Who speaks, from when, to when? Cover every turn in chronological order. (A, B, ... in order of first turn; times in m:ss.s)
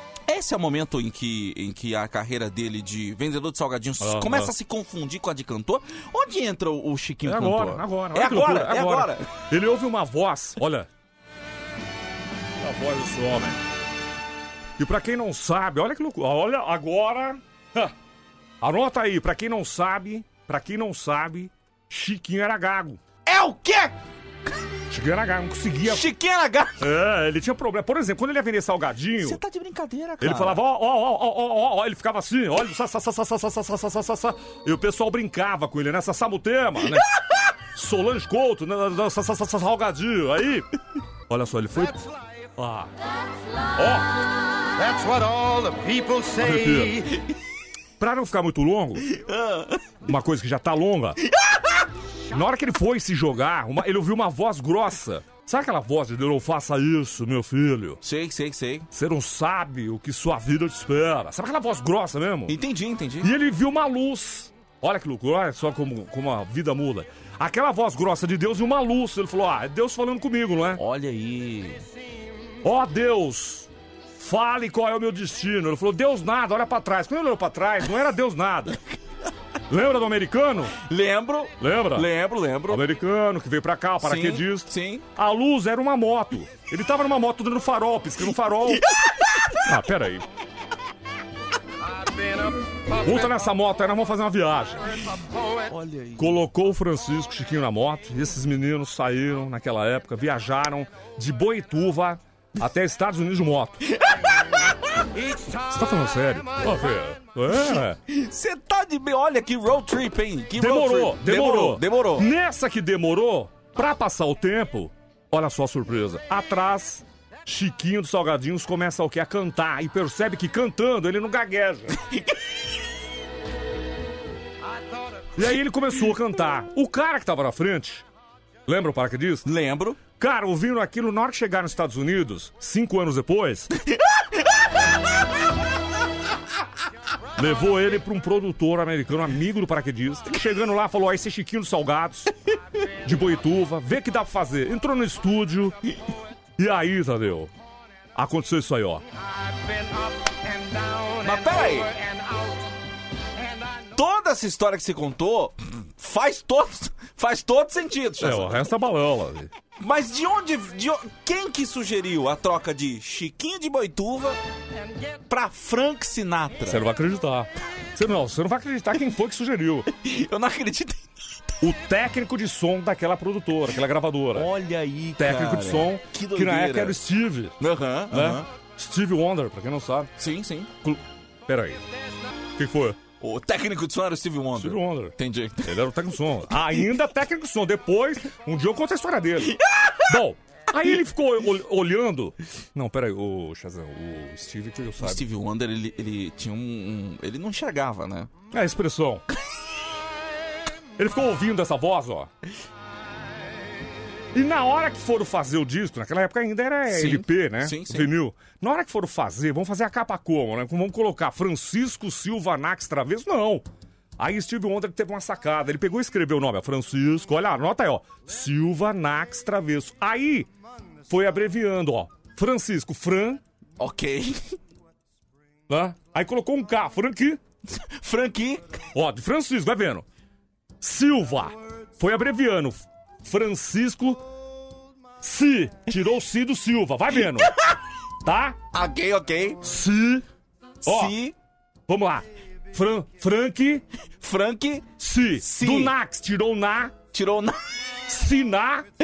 0:00.3-0:09.3 A
0:04.0-0:04.5 B
0:07.2-0:10.9 B
0:12.6-0:13.6 B
0:14.8-0:17.9 B
0:18.6-0:23.0 B
0:23.3-0:23.9 A
0:24.9-0:26.1 B
0:25.8-0:26.8 A
0:26.8-0:29.4 B
0:29.2-0:30.6 A
0:30.2-0:37.1 B
0:37.7-0:40.7 B
0:41.3-0:42.9 B
0:43.8-0:44.2 B
0:44.8-0:47.2 C
0:46.4-0:47.1 B
0:48.0-0:49.1 B
0:49.1-0:49.8 A
0:50.0-0:51.2 B
0:51.4-0:51.8 A
0:52.3-0:58.0 B
0:58.0-0:58.9 A
0:58.9-1:02.6 B
1:02.5-1:03.3 A
1:03.2-1:10.8 B
1:10.8-1:11.8 A
1:12.6-1:18.9 B
1:19.7-1:20.8 B
1:20.8-1:22.8 A
1:21.6-1:22.1 B
1:22.6-1:28.9 B
1:24.0-1:25.0 A
1:28.7-1:29.6 A
1:29.6-1:30.3 B
1:32.9-1:35.2 B
1:35.7-1:36.4 A
1:36.2-1:44.0 B
1:43.9-1:45.1 A
1:45.5-1:48.0 B
1:48.1-1:52.3 A
1:50.6-2:02.0 B
2:05.4-2:08.0 B
2:08.7-2:09.5 B
2:09.4-2:10.0 A
2:10.2-2:13.7 B
2:17.4-2:25.8 B
2:26.6-2:27.5 B
2:28.2-2:29.0 B
2:31.2-2:32.0 A
2:33.7-2:38.6 A
2:38.2-2:39.5 B
2:39.8-2:44.4 A
2:45.3-2:46.8 A
2:46.6-2:49.9 B
2:49.9-2:51.1 A
2:51.6-2:54.5 B
2:54.3-2:57.0 A
2:55.2-2:57.6 B
2:57.6-2:58.5 A
2:58.1-3:00.1 B
3:00.2-3:01.0 A
3:01.5-3:01.8 B
3:02.6-3:03.0 B
3:03.2-3:05.9 A
3:04.6-3:15.2 B
3:09.5-3:10.1 A
3:15.0-3:18.3 A
3:18.5-3:19.2 B
3:21.0-3:22.3 B
3:24.3-3:33.6 B
3:26.9-3:28.1 A
3:34.2-3:40.5 B
3:41.1-3:43.4 B
3:43.8-3:44.6 A
3:45.7-3:47.4 B
3:47.7-3:48.8 A
3:48.9-3:50.0 B
3:50.8-3:54.2 B
3:55.2-3:57.5 B
3:58.2-3:58.6 B
3:58.7-3:59.6 A
3:59.6-4:00.2 B
4:00.8-4:01.4 A
4:00.9-4:01.2 B
4:01.9-4:03.8 B
4:04.2-4:04.9 A
4:05.0-4:07.0 B
4:05.4-4:05.9 A
4:07.1-4:07.6 A
4:08.1-4:08.9 B